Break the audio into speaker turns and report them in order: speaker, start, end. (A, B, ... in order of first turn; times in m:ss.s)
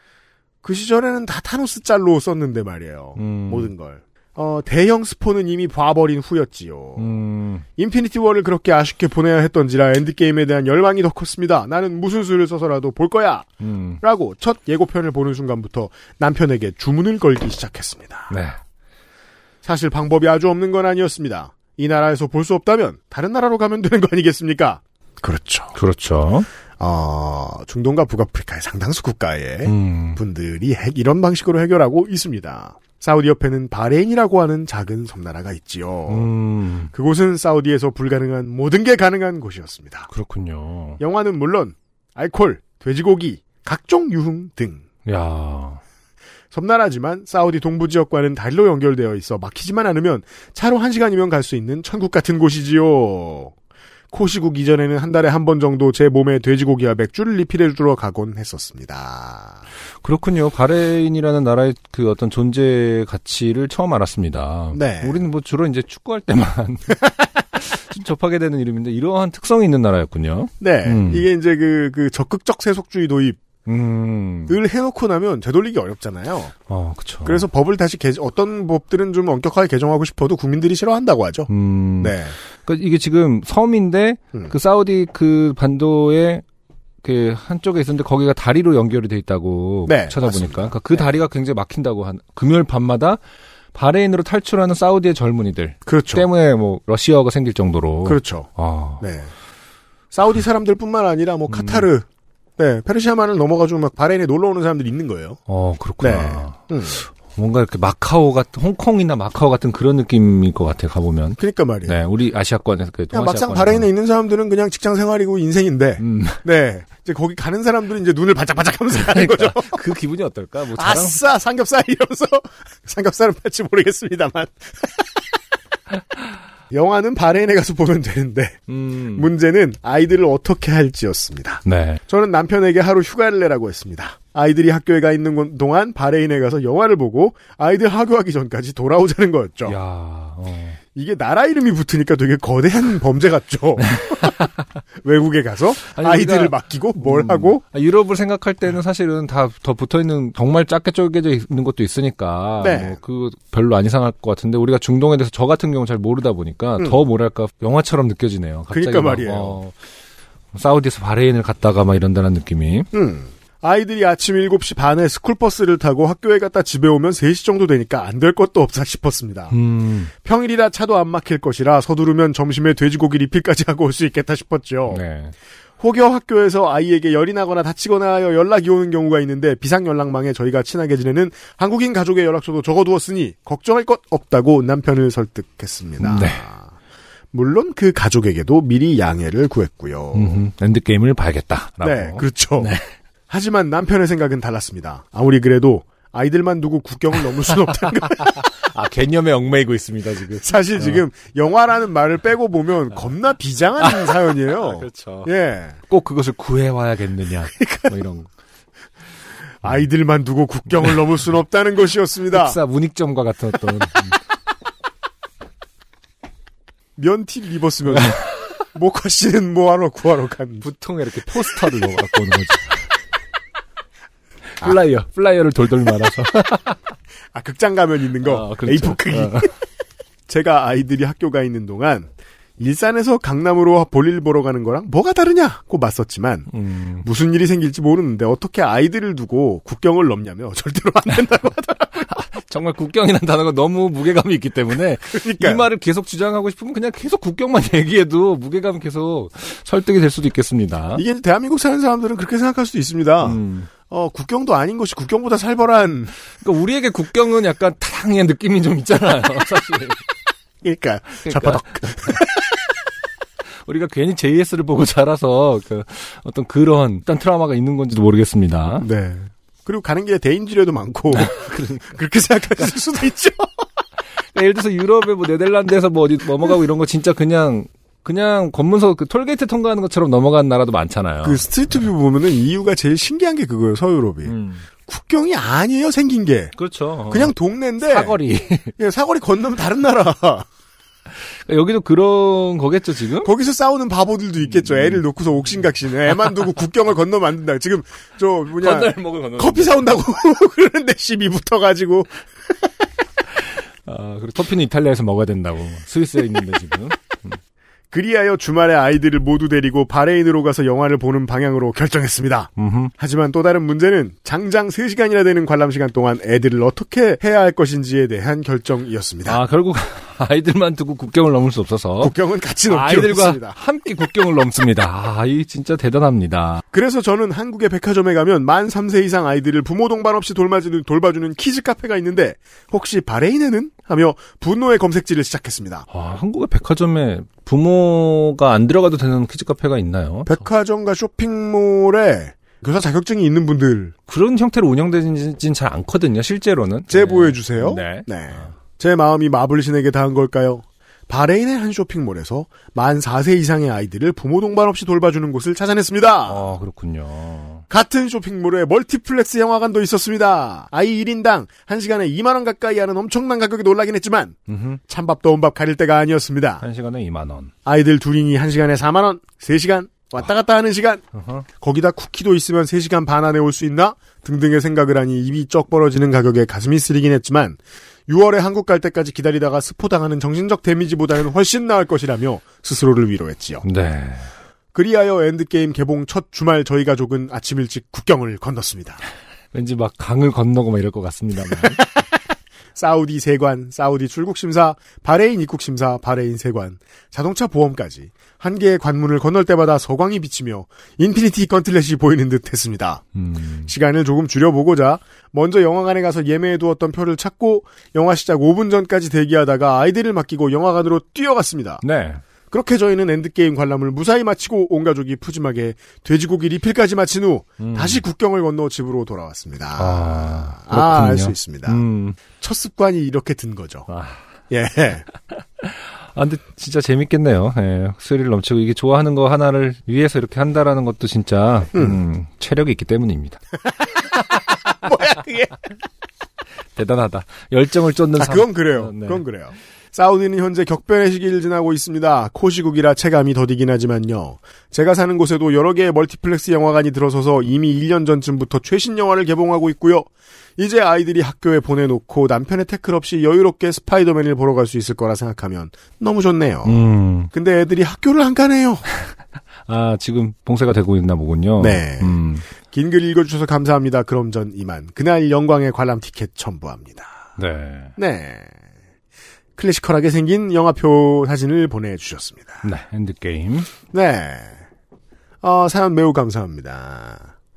0:00.6-0:07.1 A
0:03.2-0:03.7 B
0:07.0-0:07.6 B
0:07.8-0:13.5 A
0:13.6-0:14.0 B
0:14.0-0:18.3 A
0:18.3-0:18.6 B
0:19.6-0:25.8 A
0:25.8-0:26.5 B
0:26.8-0:36.3 A
0:29.6-0:30.2 B
0:36.1-0:36.9 B
0:36.9-0:40.1 A
0:40.1-0:41.0 B
0:41.0-0:44.8 A
0:45.1-0:45.8 B
0:46.5-0:53.5 A
0:54.1-0:59.6 A
1:00.0-1:11.2 B
1:04.7-1:05.2 A
1:10.6-1:13.4 A
1:13.7-1:14.6 B
1:14.5-1:16.5 A
1:16.7-1:17.4 B
1:17.2-1:22.4 A
1:21.5-1:26.4 B
1:27.0-1:33.2 B
1:29.9-1:31.1 A
1:33.7-1:39.0 B
1:35.9-1:36.3 A
1:38.0-1:39.3 A
1:40.1-1:42.1 A
1:41.5-1:41.9 B
1:42.6-1:45.4 A
1:45.5-1:53.9 B
1:46.0-1:47.0 A
1:51.4-1:52.0 A
1:53.1-1:59.8 A
1:56.0-1:56.4 B
1:59.1-2:01.2 B
2:00.8-2:05.1 A
2:06.7-2:08.6 A
2:08.7-2:09.3 B
2:09.1-2:19.8 A
2:11.6-2:12.0 B
2:19.7-2:20.8 B
2:21.0-2:24.4 A
2:23.8-2:24.5 B
2:25.0-2:27.6 A
2:25.9-2:39.8 B
2:32.6-2:33.0 A
2:38.7-2:39.6 A
2:40.5-2:42.9 B
2:42.9-2:49.6 A
2:49.5-2:50.1 B
2:50.1-2:55.0 A
2:54.9-2:55.3 B
2:55.8-3:06.7 A
3:06.0-3:06.4 B
3:07.3-3:10.4 A
3:10.1-3:12.9 B
3:11.8-3:12.7 A
3:13.3-3:18.5 A
3:18.2-3:21.0 B
3:20.4-3:25.8 A
3:23.8-3:25.3 B
3:25.9-3:28.3 B
3:27.6-3:27.9 A
3:29.6-3:32.6 A
3:32.3-3:34.2 B
3:37.0-3:40.7 A
3:40.6-3:42.8 B
3:44.6-3:46.8 B
3:47.3-3:49.5 A
3:48.2-3:49.5 B
3:50.3-3:56.5 A
3:56.5-3:57.0 B
3:57.0-4:02.1 A
4:02.0-4:11.0 B
4:05.1-4:05.7 A
4:11.0-4:16.1 A
4:13.2-4:13.7 B
4:16.4-4:20.0 B
4:20.6-4:22.5 A
4:21.2-4:22.2 B
4:23.6-4:28.9 B
4:28.8-4:33.5 A
4:31.1-4:32.0 B
4:34.3-4:41.4 B
4:41.2-4:44.4 A
4:44.2-4:44.7 B
4:44.9-4:46.5 A
4:46.6-4:47.3 B
4:47.1-4:48.2 A
4:47.8-4:48.7 B
4:48.8-4:50.5 A
4:51.5-4:53.3 B
4:53.2-5:02.2 A
4:54.5-4:55.0 B
4:58.6-4:59.8 B
5:03.9-5:07.4 B
5:07.9-5:19.4 A
5:12.6-5:12.9 B
5:19.3-5:22.1 B
5:22.0-5:23.6 A
5:22.7-5:26.6 B
5:26.7-5:35.9 A
5:35.9-5:40.3 B
5:40.3-5:43.9 A
5:44.1-5:48.5 B
5:46.9-5:56.5 A
5:56.3-5:57.6 B
5:57.7-6:06.6 A
6:04.5-6:04.8 B
6:06.6-6:07.5 B
6:07.6-6:11.0 A
6:11.1-6:11.4 B
6:11.6-6:23.6 A
6:23.6-6:24.3 B
6:24.7-6:29.0 A
6:29.5-6:31.8 B
6:31.6-6:32.0 A
6:32.8-6:43.0 A
6:43.2-6:43.7 B
6:43.7-6:51.8 A
6:51.8-6:52.2 B
6:52.5-7:01.8 A
6:57.6-6:58.0 B
6:59.8-7:02.2 B
7:02.4-7:03.9 A
7:03.9-7:04.2 B
7:04.5-7:05.0 A
7:05.3-7:13.4 B
7:11.7-7:12.0 A
7:14.2-7:15.6 A
7:16.8-7:19.2 B
7:18.2-7:38.8 A
7:36.6-7:37.3 B
7:39.7-7:42.5 B
7:41.6-7:47.2 A
7:47.4-7:48.0 B
7:48.0-7:48.5 A
7:49.6-7:52.6 A
7:52.6-7:53.7 B
7:53.9-7:54.6 A
7:55.4-7:57.3 A